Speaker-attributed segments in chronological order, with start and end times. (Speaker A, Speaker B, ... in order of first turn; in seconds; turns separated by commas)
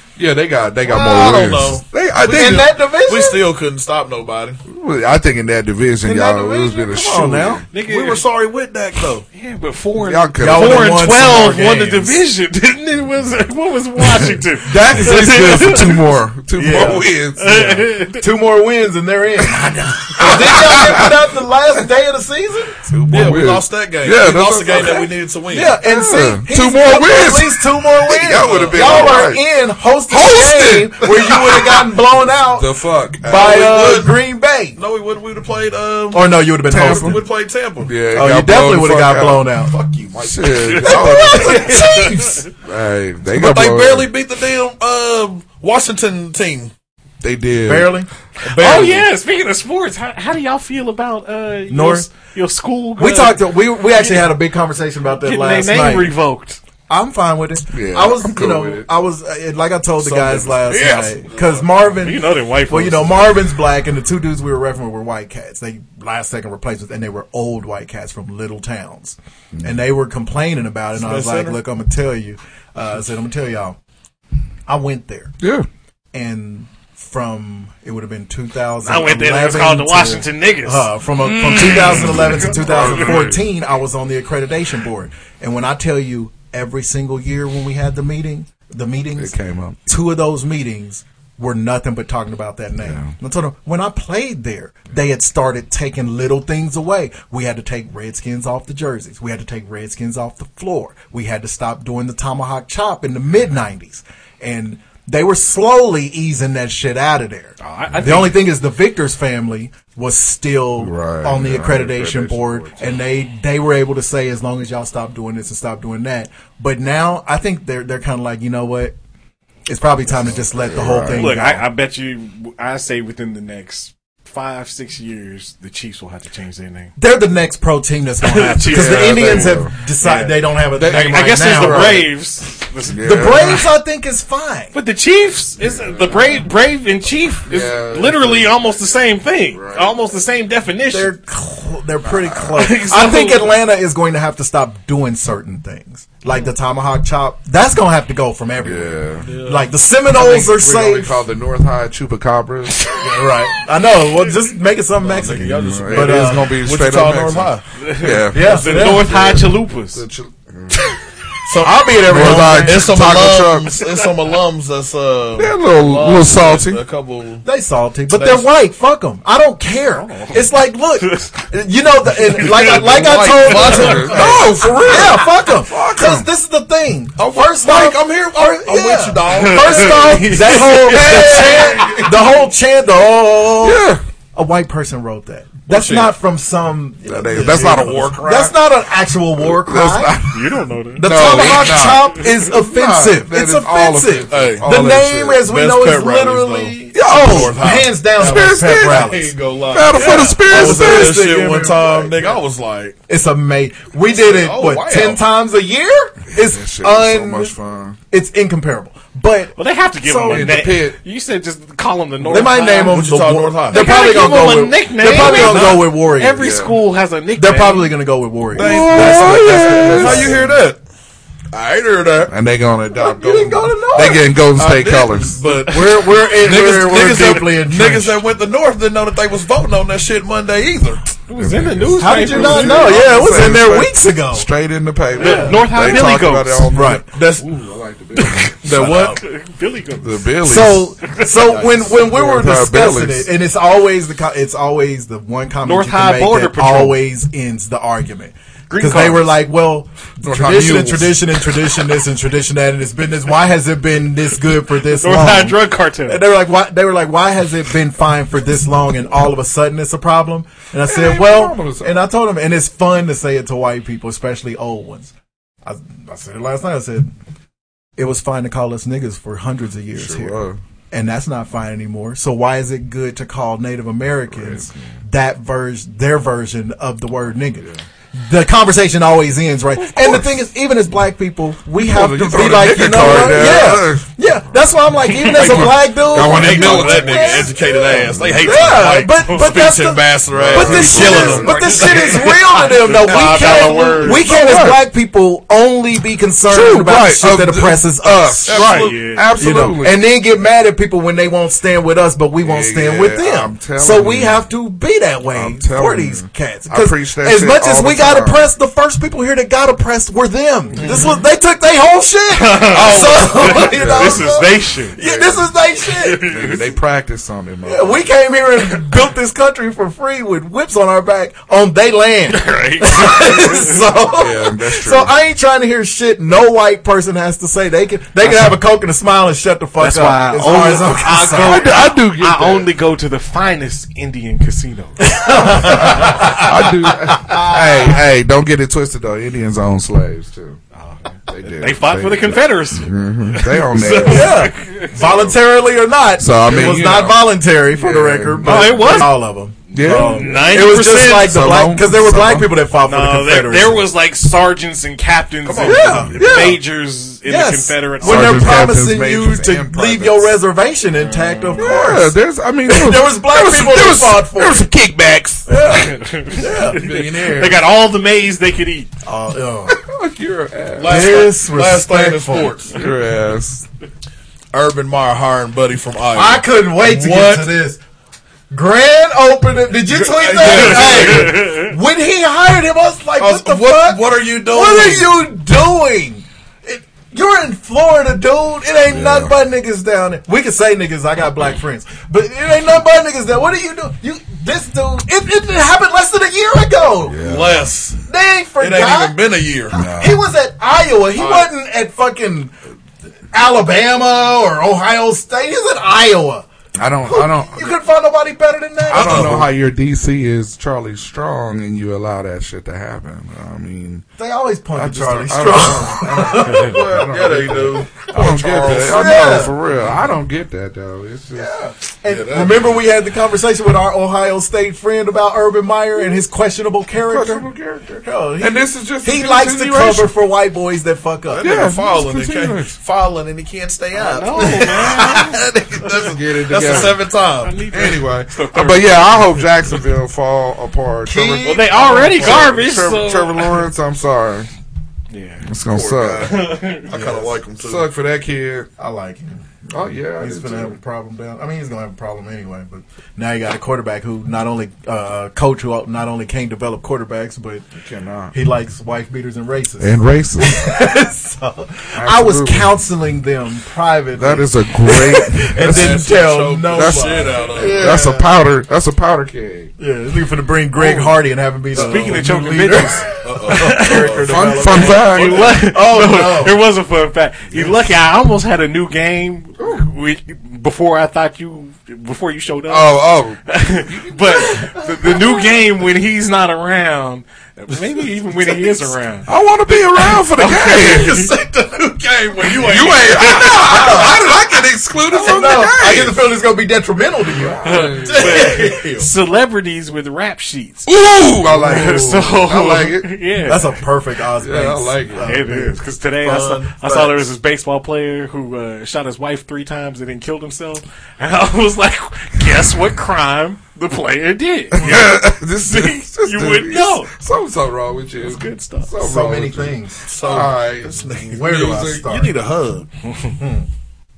Speaker A: 0.2-2.7, Speaker B: 0.8-4.6, Speaker C: 2.2-3.5, Speaker A: 4.7-7.7, Speaker C: 6.0-7.6, Speaker D: 7.7-8.2, Speaker B: 7.8-9.2, Speaker D: 9.3-15.9, Speaker A: 10.0-11.1, Speaker C: 10.4-12.2, Speaker A: 14.1-17.8, Speaker C: 14.7-16.0, Speaker C: 16.5-17.1, Speaker D: 16.8-18.2, Speaker C: 18.2-22.8, Speaker A: 20.1-21.1, Speaker A: 22.9-25.1, Speaker B: 23.1-25.8, Speaker C: 25.5-32.7, Speaker A: 25.8-29.4, Speaker B: 28.7-29.1, Speaker A: 30.1-31.9, Speaker A: 32.5-34.1, Speaker C: 33.2-34.8, Speaker B: 33.2-34.1, Speaker B: 34.8-37.9, Speaker C: 36.1-37.2, Speaker A: 36.7-37.2, Speaker A: 37.8-39.5, Speaker C: 38.1-40.1, Speaker B: 39.7-40.1, Speaker A: 40.1-41.9, Speaker D: 40.7-42.5, Speaker C: 40.8-42.4, Speaker A: 42.6-44.1, Speaker B: 43.3-46.7, Speaker A: 47.2-48.0, Speaker C: 47.6-48.1, Speaker B: 48.4-49.1, Speaker D: 48.5-54.3, Speaker C: 51.7-52.1, Speaker C: 53.0-56.2, Speaker D: 55.2-56.6, Speaker C: 56.9-73.8, Speaker A: 57.7-58.9, Speaker B: 60.0-62.0, Speaker A: 60.7-61.4, Speaker D: 62.0-63.3, Speaker B: 71.0-71.6, Speaker C: 74.7-75.3, Speaker A: 75.4-75.7, Speaker C: 76.1-89.3, Speaker D: 78.8-80.9, Speaker A: 81.2-83.4, Speaker D: 82.0-83.2, Speaker A: 89.2-89.8, Speaker C: 89.8-119.0, Speaker A: 92.8-93.1, Speaker D: 107.6-108.5, Speaker A: 110.8-112.8, Speaker C: 119.7-121.6, Speaker A: 120.2-121.3, Speaker D: 121.1-126.9, Speaker C: 127.0-132.0, Speaker D: 128.2-133.6, Speaker A: 128.7-129.7, Speaker A: 130.7-132.1, Speaker A: 132.9-133.6, Speaker C: 133.0-134.7, Speaker D: 134.7-141.1, Speaker A: 135.6-136.4, Speaker A: 137.5-138.8, Speaker A: 139.5-139.9, Speaker C: 140.9-151.2, Speaker A: 142.0-142.6, Speaker D: 142.6-143.5, Speaker A: 148.6-149.3, Speaker B: 149.2-149.7, Speaker A: 150.1-152.8, Speaker C: 153.0-156.6, Speaker B: 155.0-157.6, Speaker A: 155.4-160.9, Speaker D: 157.8-160.0, Speaker C: 158.3-159.1, Speaker B: 161.4-167.4, Speaker C: 161.6-163.1, Speaker A: 162.1-163.9, Speaker A: 165.3-166.8, Speaker C: 167.4-190.2, Speaker B: 168.1-168.5, Speaker D: 169.9-170.4, Speaker D: 171.0-171.3, Speaker D: 172.4-172.8, Speaker A: 172.6-176.2, Speaker B: 172.9-174.9, Speaker D: 173.4-173.9, Speaker A: 177.2-178.5, Speaker B: 177.8-180.2, Speaker D: 179.3-182.1, Speaker A: 180.8-182.0, Speaker A: 183.6-184.0, Speaker B: 185.7-186.1, Speaker A: 187.1-188.5, Speaker B: 187.3-188.4, Speaker A: 189.4-195.4, Speaker D: 190.3-191.5, Speaker C: 191.0-199.3, Speaker B: 194.3-194.7, Speaker B: 195.4-203.0, Speaker A: 196.9-199.1, Speaker A: 199.7-201.4, Speaker C: 199.9-202.2, Speaker C: 203.1-207.5, Speaker B: 204.1-205.2, Speaker A: 206.3-208.0, Speaker C: 208.1-210.6, Speaker D: 209.6-213.0, Speaker A: 210.3-211.0, Speaker C: 212.2-216.5, Speaker B: 212.3-213.9, Speaker D: 213.7-217.9, Speaker B: 215.1-215.5, Speaker A: 215.4-215.7, Speaker A: 216.4-216.8, Speaker C: 217.4-220.6, Speaker B: 218.5-220.8, Speaker A: 218.5-220.4, Speaker B: 221.5-222.3, Speaker A: 222.3-225.9, Speaker C: 222.9-224.3, Speaker B: 224.6-231.0, Speaker C: 225.5-228.2, Speaker D: 231.3-233.0, Speaker A: 231.4-239.1, Speaker C: 232.0-234.5, Speaker C: 235.1-236.0, Speaker D: 235.2-236.7, Speaker C: 236.7-237.3, Speaker B: 237.1-237.4, Speaker D: 238.2-240.3, Speaker B: 238.6-239.2, Speaker A: 240.0-243.3, Speaker C: 240.4-265.1, Speaker B: 241.3-242.1, Speaker D: 245.6-247.0, Speaker D: 248.7-249.3, Speaker A: 250.2-251.8, Speaker D: 254.9-256.2, Speaker A: 260.8-262.1, Speaker C: 265.6-267.1, Speaker C: 268.0-270.4, Speaker A: 269.9-270.6, Speaker C: 270.9-298.6, Speaker A: 274.3-274.9, Speaker A: 280.0-280.2, Speaker A: 281.8-284.2, Speaker D: 285.1-285.4, Speaker A: 285.2-288.6, Speaker B: 285.5-292.5, Speaker D: 288.7-289.7, Speaker A: 290.3-292.2, Speaker D: 290.9-294.4, Speaker B: 293.3-294.0, Speaker A: 294.1-294.8, Speaker A: 296.5-300.0, Speaker B: 298.5-298.9, Speaker D: 298.5-299.6, Speaker C: 299.4-316.3, Speaker A: 302.4-304.4, Speaker A: 305.3-308.5, Speaker D: 310.8-311.2, Speaker D: 312.3-315.0, Speaker A: 312.7-314.4, Speaker A: 315.0-315.5, Speaker D: 316.0-316.6, Speaker A: 316.3-318.1, Speaker C: 317.6-331.9, Speaker D: 322.3-323.8, Speaker A: 324.1-325.1, Speaker D: 329.8-336.3, Speaker A: 331.3-332.7, Speaker C: 335.0-338.1, Speaker A: 335.6-340.6, Speaker D: 340.7-345.0, Speaker A: 341.3-345.3, Speaker C: 344.0-353.9, Speaker A: 346.2-349.1, Speaker D: 348.4-349.1, Speaker A: 349.7-352.5, Speaker D: 349.8-351.5, Speaker D: 352.9-358.7, Speaker B: 355.4-356.4, Speaker C: 355.6-356.6, Speaker A: 356.1-356.6, Speaker C: 357.2-364.7, Speaker A: 358.0-360.3, Speaker D: 361.0-361.8, Speaker A: 361.6-365.8, Speaker C: 365.5-366.8, Speaker D: 365.8-368.9, Speaker A: 366.7-367.6, Speaker C: 369.0-369.8, Speaker A: 369.7-373.6, Speaker B: 370.7-372.8, Speaker C: 370.8-372.4, Speaker B: 374.5-377.5, Speaker C: 376.1-377.8, Speaker C: 378.5-397.2, Speaker B: 380.0-381.4, Speaker D: 380.3-381.7, Speaker B: 383.2-385.2, Speaker A: 388.9-389.4, Speaker A: 397.0-397.7, Speaker B: 397.2-398.0, Speaker C: 398.1-399.2, Speaker B: 398.6-399.9, Speaker C: 399.7-402.5, Speaker A: 399.7-400.2, Speaker B: 401.1-401.5, Speaker C: 403.3-406.5, Speaker A: 406.8-407.7, Speaker C: 407.0-409.5, Speaker A: 408.9-414.0, Speaker B: 408.9-409.5, Speaker C: 414.2-416.7, Speaker A: 414.7-421.5, Speaker B: 416.6-419.6, Speaker C: 418.6-419.6, Speaker C: 421.3-427.4, Speaker B: 422.1-422.8, Speaker A: 427.1-430.1, Speaker C: 428.0-431.8, Speaker B: 431.3-435.2, Speaker A: 431.4-432.8, Speaker D: 433.9-435.2, Speaker C: 434.5-435.4, Speaker A: 435.0-437.1, Speaker B: 435.7-437.6, Speaker D: 437.4-439.4, Speaker A: 437.7-444.5, Speaker C: 441.0-442.3, Speaker D: 441.4-443.6, Speaker B: 441.4-442.5, Speaker D: 445.1-445.4, Speaker A: 445.5-446.4, Speaker B: 445.7-447.9, Speaker D: 446.2-446.9, Speaker C: 446.9-447.4, Speaker A: 447.6-448.7, Speaker C: 448.8-449.4, Speaker A: 449.7-450.8, Speaker C: 450.2-457.6, Speaker A: 457.8-458.3, Speaker C: 458.3-468.3, Speaker A: 459.8-460.7, Speaker A: 461.9-462.8, Speaker A: 464.1-466.1, Speaker B: 465.6-468.0, Speaker A: 466.7-469.7, Speaker C: 469.8-476.6, Speaker A: 470.7-471.2, Speaker B: 471.7-472.3, Speaker D: 471.7-474.1, Speaker A: 472.2-473.0, Speaker B: 473.2-475.0, Speaker A: 474.2-475.6, Speaker D: 475.0-489.3, Speaker A: 479.6-479.9, Speaker A: 482.7-485.4, Speaker B: 488.5-488.9, Speaker A: 489.3-491.1, Speaker D: 489.9-491.3, Speaker B: 490.6-493.5, Speaker A: 492.6-496.2, Speaker D: 493.1-493.9, Speaker C: 493.6-494.3, Speaker C: 495.1-497.8, Speaker A: 497.3-498.6, Speaker D: 497.6-500.9, Speaker B: 497.7-499.1, Speaker A: 500.9-503.2, Speaker C: 501.5-502.4, Speaker D: 501.6-503.8, Speaker C: 503.4-505.8, Speaker A: 504.4-505.3, Speaker D: 505.2-514.9, Speaker B: 506.2-507.3, Speaker A: 514.7-522.0, Speaker C: 514.8-515.0, Speaker D: 515.6-517.1, Speaker D: 518.2-518.9, Speaker C: 519.0-520.1, Speaker B: 520.0-522.9, Speaker C: 521.3-522.4, Speaker C: 523.4-523.7